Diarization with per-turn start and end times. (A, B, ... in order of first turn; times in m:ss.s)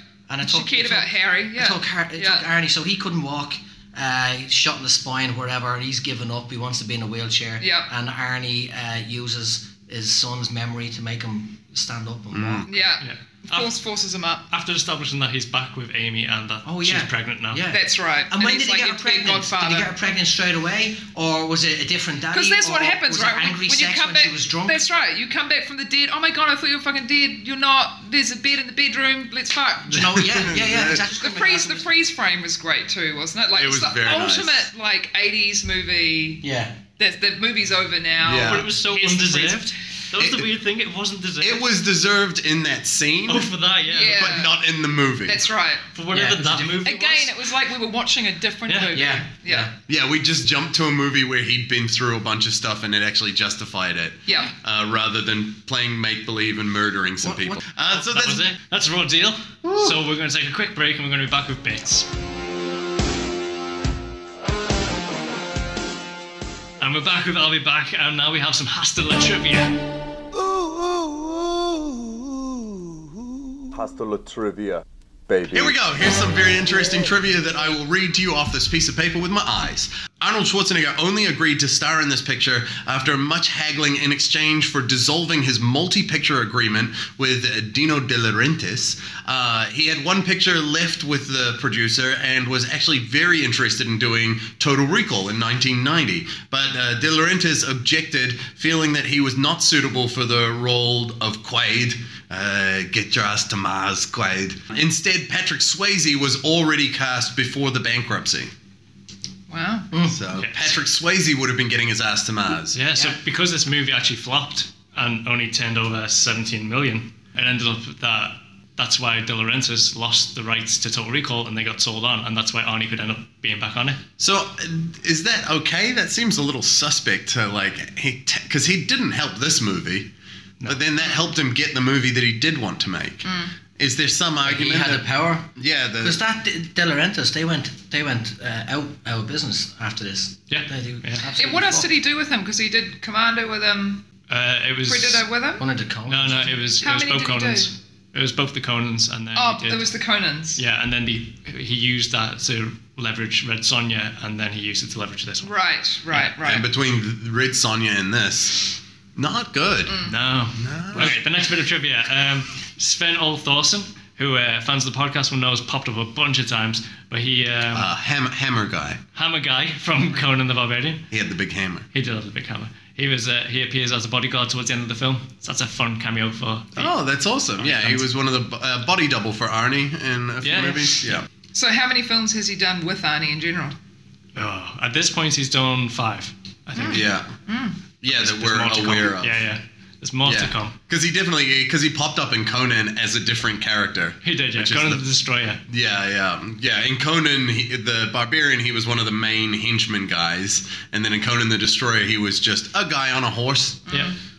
0:00.3-0:12.8 A
0:00.4-0:02.5 B
0:07.6-0:07.9 B
0:12.3-0:12.7 C
0:12.7-0:14.5 B
0:13.0-0:13.7 D
0:14.5-0:17.7 D
0:16.6-0:24.8 A
0:17.7-0:19.9 B
0:22.3-0:30.5 B
0:29.9-0:31.9 A
0:30.2-0:31.1 C
0:31.2-0:36.4 B
0:33.5-0:34.7 C
0:36.4-0:36.8 A
0:37.0-0:39.7 B
0:38.2-0:38.7 C
0:38.4-0:41.7 D
0:40.2-0:40.5 C
0:41.4-0:43.5 C
0:43.3-0:44.3 D
0:43.8-0:44.6 B
0:44.1-0:45.4 C
0:45.2-0:45.9 B
0:45.9-0:47.4 D
0:46.1-0:46.8 A
0:46.8-0:49.7 B
0:48.7-0:49.0 D
0:48.9-0:49.7 A
0:49.9-0:58.5 C
0:54.3-0:54.5 B
0:57.2-0:57.6 A
0:57.9-1:02.1 D
0:59.6-1:00.0 C
1:06.8-1:09.8 D
1:10.3-1:12.9 E
1:13.7-1:15.7 E
1:15.5-1:48.5 C
1:49.5-1:49.9 B
1:49.9-1:50.2 A
1:50.0-1:52.8 C
1:50.3-1:50.8 D
1:52.7-2:04.0 D
2:04.2-2:10.1 C
2:10.7-2:16.2 C
2:13.2-2:13.5 B
2:14.4-2:21.9 A
2:20.5-2:21.2 D
2:21.3-2:24.0 B
2:24.3-2:25.2 D
2:24.9-2:25.6 B
2:25.6-2:26.5 A
2:26.1-2:29.9 D
2:26.8-2:27.7 B
2:29.3-2:30.6 B
2:30.6-2:35.5 D
2:35.4-2:36.7 B
2:36.3-2:38.6 C
2:39.2-2:40.0 C
2:39.9-2:40.1 B
2:40.0-2:47.9 D
2:40.5-2:41.2 C
2:47.7-2:49.0 C
2:49.1-2:51.1 D
2:51.1-2:51.9 C
2:51.9-2:56.9 D
2:56.8-3:01.2 C
2:57.6-2:58.1 D
3:00.4-3:01.2 D
3:01.5-3:03.8 B
3:04.4-3:07.1 D
3:06.8-3:07.8 B
3:06.9-3:07.3 C
3:08.0-3:09.4 C
3:08.1-3:10.8 D
3:10.2-3:15.1 C
3:14.2-3:15.6 D
3:15.7-3:23.9 C
3:23.9-3:24.2 B